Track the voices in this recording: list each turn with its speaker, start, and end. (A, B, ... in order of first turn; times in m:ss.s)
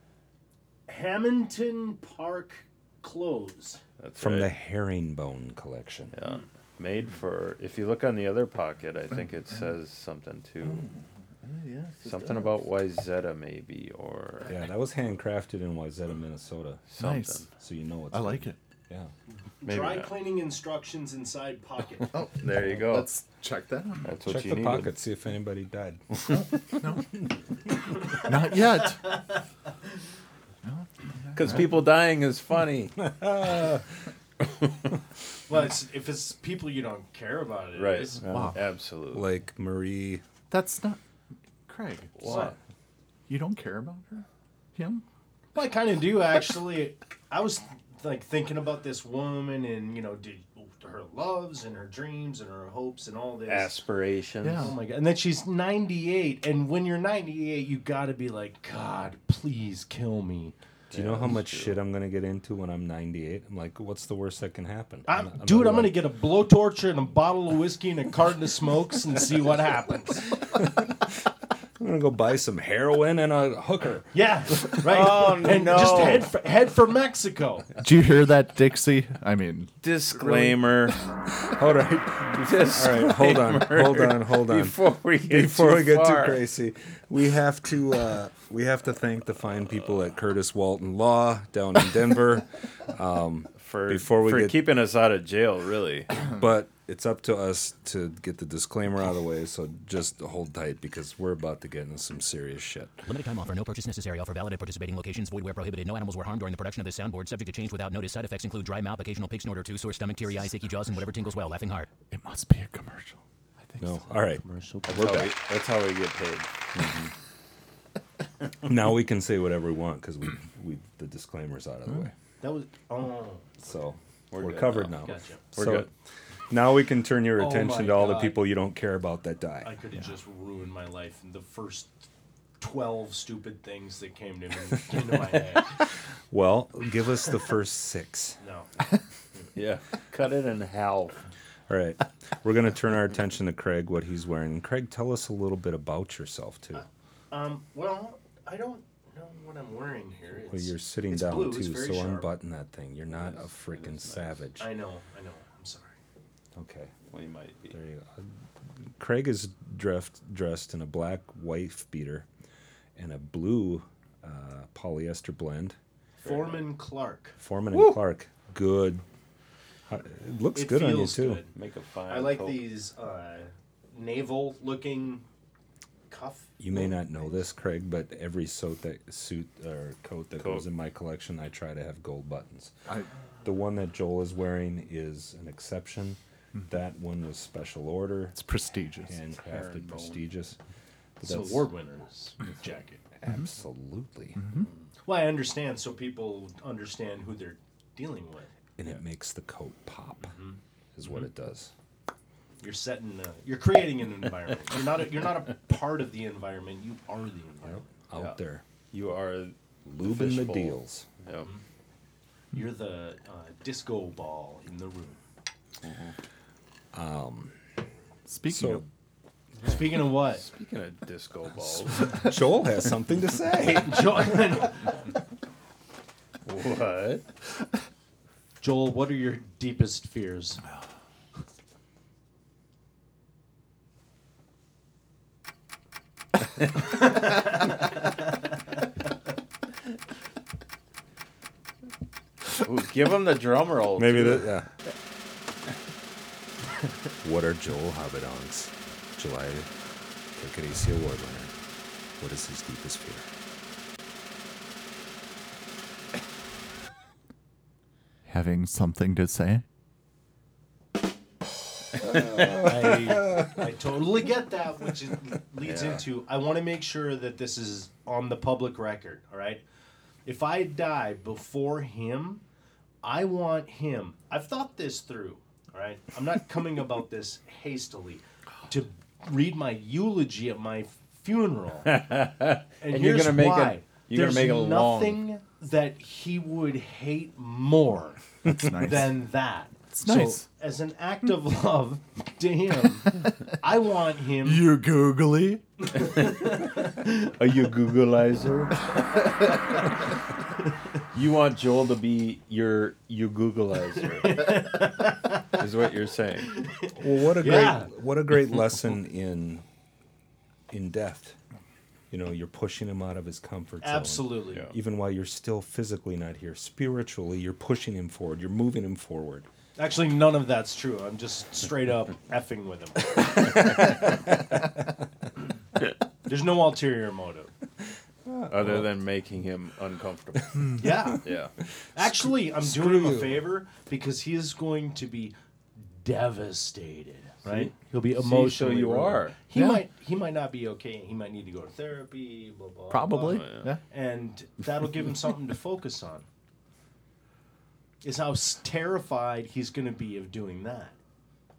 0:00.9-0:03.8 A
0:04.0-0:04.5 B
0:04.2-0:06.1 C
0:06.1-0:10.8 B
0:10.6-0:12.6 D
0:12.0-0:14.6 B
0:14.5-0:16.8 C
0:16.9-0:17.5 B
0:17.0-0:17.5 D
0:17.6-0:19.1 C
0:18.1-0:18.6 D
0:19.6-0:22.1 A
0:19.6-0:20.1 B
0:22.1-0:24.1 D
0:22.4-0:23.1 B
0:24.0-0:24.9 B
0:24.2-0:26.4 C
0:26.3-0:27.1 D
0:28.2-0:29.2 D
0:30.6-0:31.7 D
0:31.4-0:33.0 B
0:33.0-0:33.8 C
0:35.5-0:38.2 A
0:37.8-0:39.3 B
0:38.3-0:38.6 D
0:39.1-0:40.2 C
0:40.5-0:41.0 D
0:41.7-0:42.4 D
0:42.2-0:42.6 B
0:42.2-0:42.6 A
0:43.3-0:45.0 D
0:45.6-0:53.8 A
0:53.5-0:54.8 B
0:54.4-0:54.8 D
0:54.6-1:00.6 A
1:00.9-1:01.8 B
1:00.9-1:06.0 C
1:05.1-1:10.3 A
1:10.5-1:11.1 C
1:11.8-1:14.1 C
1:14.1-1:17.7 A
1:14.7-1:16.3 B
1:17.8-1:20.6 D
1:19.8-1:21.0 B
1:21.4-1:34.6 C
1:22.3-1:26.4 B
1:33.6-1:36.1 B
1:36.2-1:43.0 C
1:43.1-1:51.9 E
1:52.1-1:54.0 D
1:53.8-1:55.3 C
1:54.5-1:54.9 A
1:54.9-1:56.5 B
1:56.7-1:57.1 C
1:58.6-2:02.1 C
2:02.4-2:03.8 A
2:03.6-2:05.9 C
2:04.3-2:05.9 B
2:05.0-2:05.4 A
2:06.5-2:09.7 C
2:07.4-2:08.4 A
2:09.6-2:11.9 A
2:12.6-2:15.8 A
2:16.3-2:18.4 C
2:18.4-2:18.7 A
2:19.6-2:21.2 B
2:21.7-2:26.8 C
2:26.8-2:32.3 A
2:30.5-2:34.7 C
2:33.2-2:34.5 B
2:34.6-2:36.0 A
2:36.6-2:37.0 C
2:37.1-2:37.8 B
2:37.7-2:38.3 C
2:38.9-2:42.3 C
2:43.0-2:45.8 C
2:46.2-2:46.6 B
2:46.2-2:47.4 A
2:47.4-2:49.0 C
2:49.9-2:51.4 C
2:50.6-2:51.5 A
2:51.5-2:52.7 B
2:52.1-2:55.2 A
2:56.1-2:56.9 A
2:56.6-3:02.7 C
3:00.4-3:00.6 B
3:03.4-3:08.4 C
3:08.4-3:09.2 D
3:09.0-3:10.6 C
3:09.4-3:10.2 B
3:11.2-3:11.7 C
3:11.2-3:13.0 A
3:13.2-3:14.4 C
3:14.4-3:14.7 D
3:15.0-3:18.5 A
3:18.8-3:20.4 C
3:20.2-3:20.6 A
3:21.0-3:21.7 C
3:22.6-3:27.9 A
3:27.7-3:28.6 C
3:28.9-3:31.5 B
3:29.8-3:31.1 C
3:32.5-3:35.2 A
3:35.8-3:36.1 B
3:36.9-3:37.6 C
3:38.3-3:38.9 D
3:38.5-3:38.8 C
3:39.6-3:40.4 A
3:39.6-3:42.3 B
3:42.0-3:44.5 C
3:43.7-3:44.9 A
3:46.4-3:47.2 B
3:48.6-3:50.6 A
4:02.6-4:04.5 B
4:04.0-4:04.7 C
4:07.2-4:09.7 C
4:10.4-4:11.5 C
4:12.2-4:13.3 C
4:18.3-4:19.6 D
4:22.0-4:23.5 C
4:22.6-4:29.6 A
4:25.6-4:26.0 B
4:30.3-4:32.4 A
4:33.0-4:41.9 A
4:41.9-4:45.2 B
4:42.8-4:54.7 A
4:48.5-4:49.2 D
4:49.9-4:50.4 D
4:54.4-4:55.6 D
4:56.0-4:59.5 B
4:56.2-4:56.5 A
5:01.1-5:04.6 B
5:04.2-5:05.5 A
5:05.6-5:06.5 B
5:06.5-5:07.9 A
5:07.0-5:09.6 C
5:10.7-5:11.4 C
5:12.1-5:19.5 C
5:13.8-5:14.7 A
5:19.8-5:23.5 A
5:26.3-5:27.5 A
5:28.3-5:28.9 C
5:28.5-5:31.5 B
5:30.8-5:31.2 A
5:32.0-5:35.3 A
5:32.0-5:33.5 C
5:35.9-5:46.2 A
5:37.4-5:39.4 B
5:39.6-5:39.8 D
5:42.9-5:43.8 D
5:43.3-5:43.7 B
5:48.0-5:51.0 A